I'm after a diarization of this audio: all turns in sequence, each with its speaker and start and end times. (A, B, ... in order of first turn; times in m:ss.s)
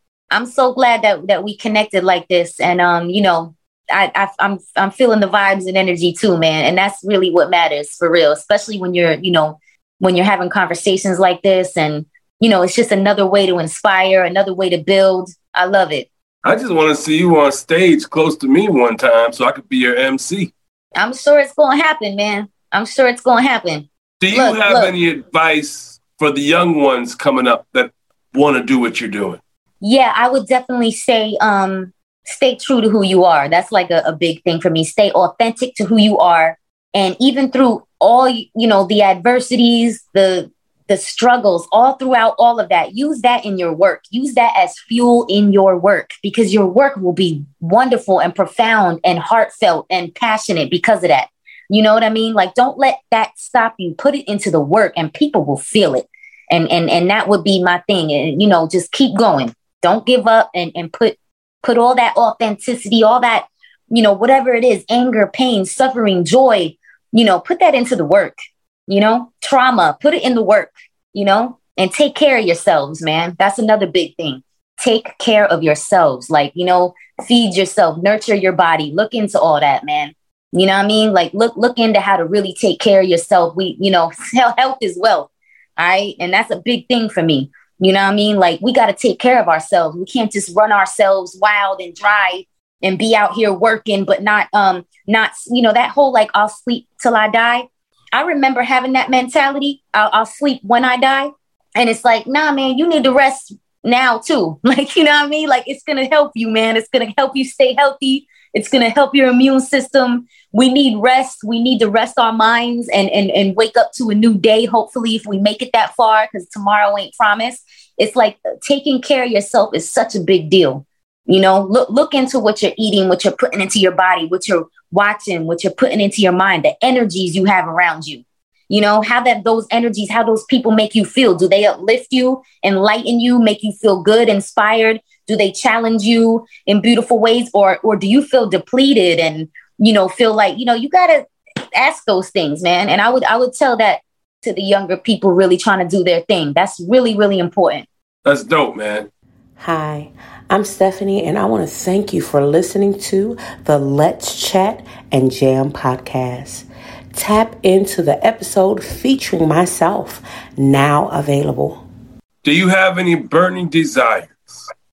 0:00.3-0:16.1 A
0:16.4-0:20.5 B
0:20.9-0:24.9 A
0:24.2-0:29.4 B
0:29.8-1:08.4 A
1:08.9-2:27.9 A
2:28.2-2:29.1 B
2:29.6-2:41.9 C
2:42.4-2:44.6 B